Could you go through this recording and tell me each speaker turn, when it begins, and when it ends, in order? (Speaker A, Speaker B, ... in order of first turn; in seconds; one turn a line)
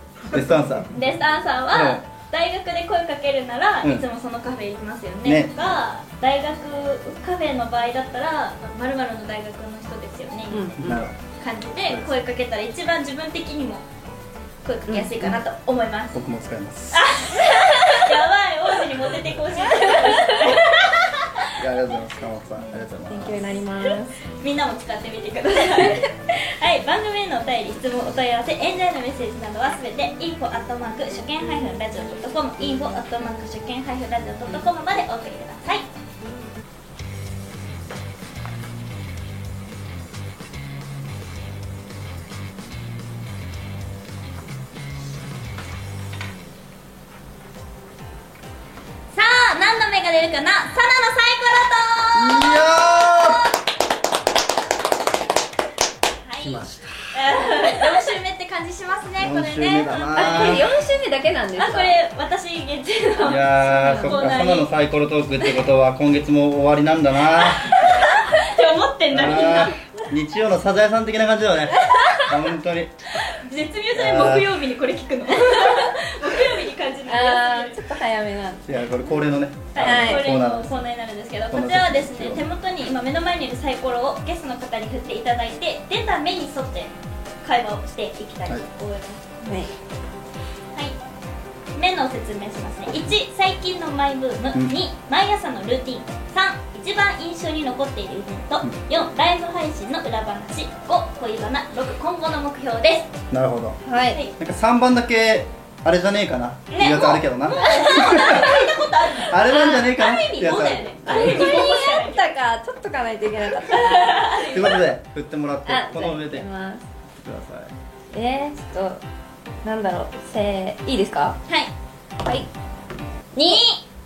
Speaker A: 0.3-13.8
Speaker B: 0.3-0.9
Speaker B: 1.7-2.0
Speaker B: 5.2-5.5
Speaker C: 10.5-11.1
Speaker B: 10.8-11.2
Speaker B: 11.8-12.1
Speaker A: 14.6-16.2
Speaker C: 14.9-15.4
Speaker B: 16.1-17.1
Speaker A: 16.9-21.5
Speaker C: 19.9-20.4
Speaker B: 21.5-23.5
Speaker C: 23.1-24.2
Speaker A: 24.4-35.9
Speaker A: 49.1-53.4
Speaker B: 52.1-53.4
Speaker A: 56.2-60.7
Speaker B: 56.4-57.2
Speaker B: 59.2-60.6
Speaker C: 60.1-62.0
Speaker A: 61.5-64.7
Speaker B: 63.2-67.7
Speaker C: 63.7-64.3
Speaker A: 67.3-70.1
Speaker B: 69.1-72.9
Speaker A: 73.3-77.8
Speaker B: 73.9-74.5
Speaker C: 77.1-78.7
Speaker B: 78.7-80.7
Speaker A: 79.7-86.9
Speaker C: 79.8-80.3
Speaker B: 81.5-82.4
Speaker A: 87.4-89.2
Speaker C: 89.4-89.7
Speaker A: 91.7-103.1
Speaker B: 103.3-103.8
Speaker C: 103.8-104.2
Speaker B: 104.4-111.6
Speaker A: 106.7-112.3
Speaker C: 111.0-114.4
Speaker A: 113.9-114.8
Speaker B: 114.4-116.5
Speaker C: 115.7-116.8
Speaker B: 117.2-117.7
Speaker C: 118.1-119.0
Speaker C: 119.6-121.4
Speaker C: 122.2-122.5
Speaker C: 123.3-123.6
Speaker A: 123.4-123.8